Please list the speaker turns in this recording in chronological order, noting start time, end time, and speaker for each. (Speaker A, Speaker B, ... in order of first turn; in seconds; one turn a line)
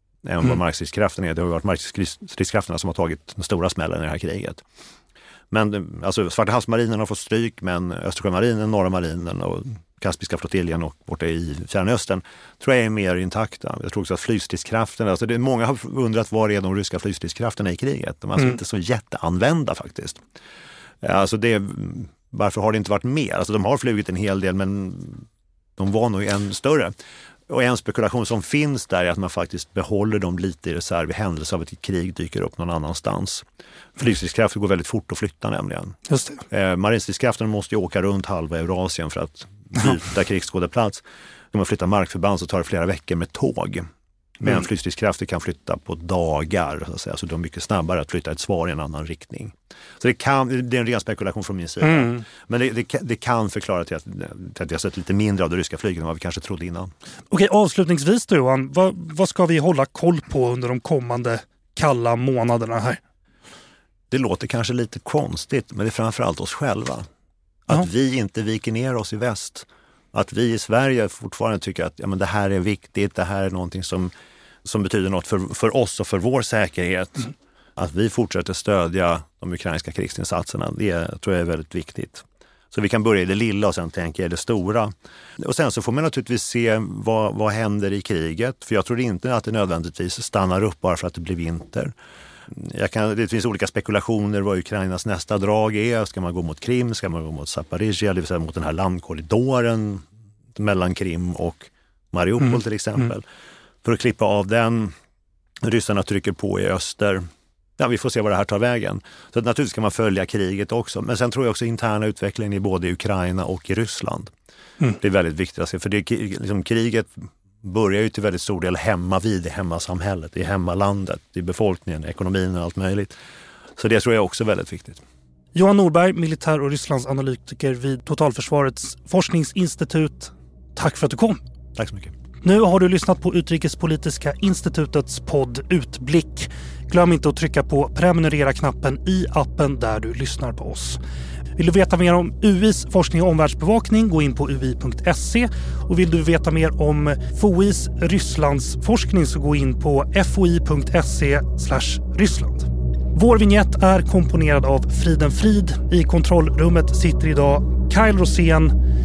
Speaker A: 0.2-4.6
Speaker A: 5.5-20.2
Speaker A: 21.0-26.9
Speaker A: 27.5-33.5
Speaker A: 34.0-36.0
Speaker B: 36.1-36.4
Speaker A: 36.5-43.9
Speaker A: 44.4-56.9
Speaker B: 51.8-52.2
Speaker B: 57.3-63.0
Speaker A: 64.1-67.1
Speaker A: 67.7-74.1
Speaker A: 74.6-91.9
Speaker A: 92.5-103.2
Speaker A: 103.8-104.9
Speaker A: 105.6-107.2
Speaker A: 107.8-114.3
Speaker A: 115.0-123.2
Speaker A: 123.8-125.0
Speaker B: 125.5-131.4
Speaker A: 131.8-132.1
Speaker B: 132.4-141.0
Speaker B: 141.6-158.8